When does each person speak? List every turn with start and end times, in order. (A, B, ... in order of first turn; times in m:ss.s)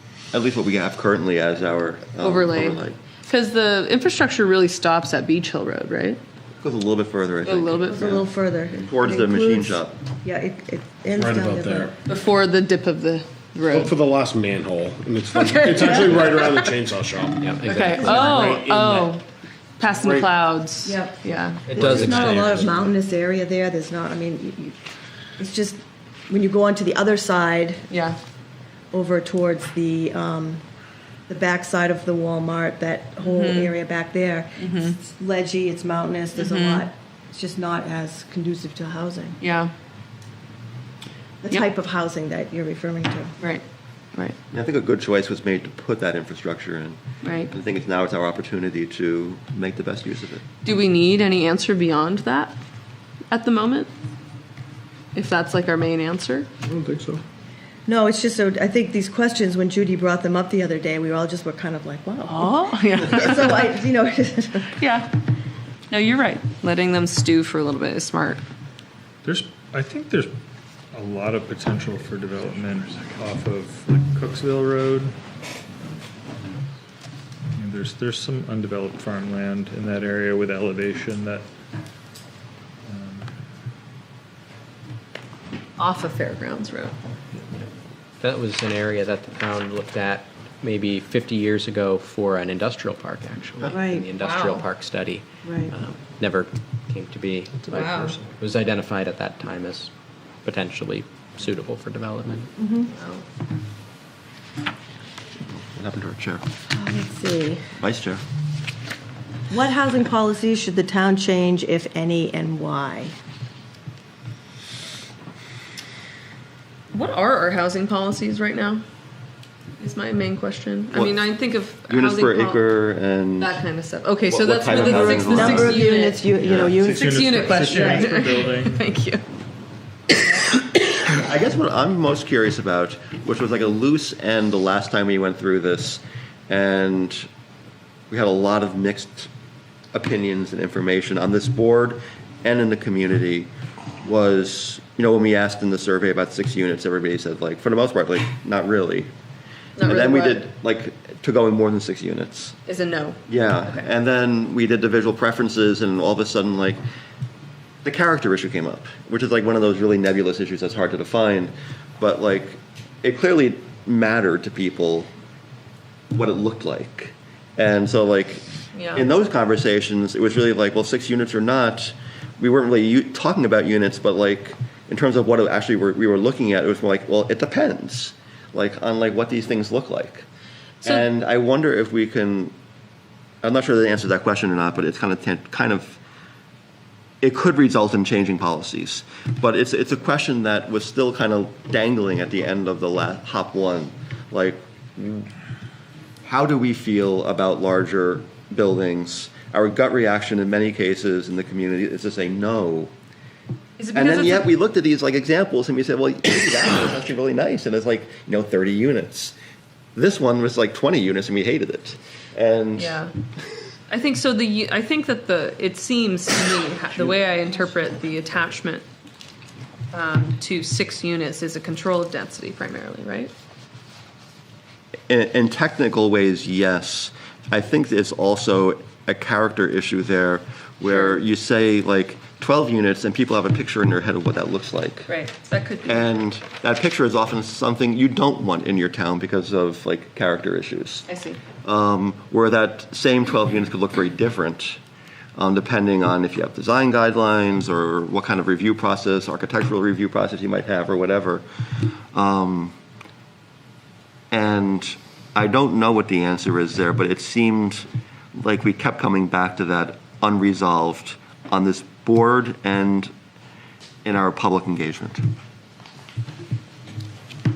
0:00.3-0:03.0 A
0:02.2-0:06.2 B
0:06.6-0:10.0 A
0:07.4-0:08.2 B
0:07.9-0:11.9 C
0:11.1-0:11.9 D
0:12.0-0:13.9 B
0:13.7-0:19.1 D
0:15.3-0:16.7 B
0:17.4-0:18.9 E
0:17.7-0:19.2 B
0:18.0-0:18.3 C
0:19.8-0:21.7 B
0:19.9-0:20.3 D
0:20.8-0:24.7 C
0:21.7-0:22.9 E
0:25.4-0:27.9 C
0:27.9-0:28.2 B
0:28.9-0:30.6 C
0:31.3-0:39.4 C
0:33.2-0:33.8 B
0:34.6-0:35.0 B
0:36.4-0:36.8 B
0:39.4-0:39.7 B
0:41.4-0:43.3 C
0:44.5-0:50.4 A
0:47.2-0:47.5 B
0:50.6-0:52.5 B
0:53.3-0:53.9 B
0:55.1-0:56.5 B
0:56.8-0:57.2 A
0:57.8-1:04.8 C
1:02.3-1:03.7 B
1:04.8-1:05.1 B
1:05.9-1:08.4 B
1:09.2-1:10.3 F
1:10.9-1:15.1 F
1:17.6-1:21.5 F
1:22.8-1:23.3 F
1:25.8-1:26.9 B
1:28.2-1:39.9 E
1:33.7-1:34.1 C
1:34.2-1:34.7 B
1:35.4-1:35.7 C
1:37.6-1:38.2 F
1:37.7-1:38.2 B
1:40.4-1:42.5 E
1:42.6-1:42.9 C
1:42.9-1:43.2 B
1:45.5-1:46.4 A
1:46.7-1:47.7 C
1:47.8-1:48.2 A
1:49.5-1:53.1 C
1:56.9-1:58.8 B
1:59.8-2:02.6 B
2:00.9-2:01.3 A
2:01.9-2:03.6 A
2:03.4-2:09.2 B
2:04.2-2:05.8 A
2:04.8-2:08.1 C
2:06.6-2:08.8 F
2:11.0-2:17.3 A
2:18.1-2:19.3 A
2:19.9-2:23.5 A
2:24.0-2:29.1 A
2:29.8-2:30.4 B
2:29.8-2:32.6 A
2:32.6-2:33.8 B
2:33.3-2:36.8 A
2:37.8-2:45.1 A
2:46.1-3:00.2 A
2:48.7-2:49.0 B
3:00.8-3:02.5 A
3:03.4-3:06.0 A
3:07.2-3:15.3 A
3:16.2-3:22.9 A
3:23.8-3:24.5 B
3:23.9-3:29.3 A
3:29.9-3:33.0 A
3:32.8-3:33.1 B
3:33.9-3:38.8 B
3:37.0-3:37.7 A
3:39.9-3:43.3 B
3:45.1-3:55.1 A
3:50.9-3:51.2 B
3:55.1-3:56.1 B
3:55.8-4:01.0 A
4:01.1-4:01.4 B
4:01.6-4:04.8 A
4:05.4-4:12.8 A
4:14.3-4:23.1 A
4:24.0-4:25.2 A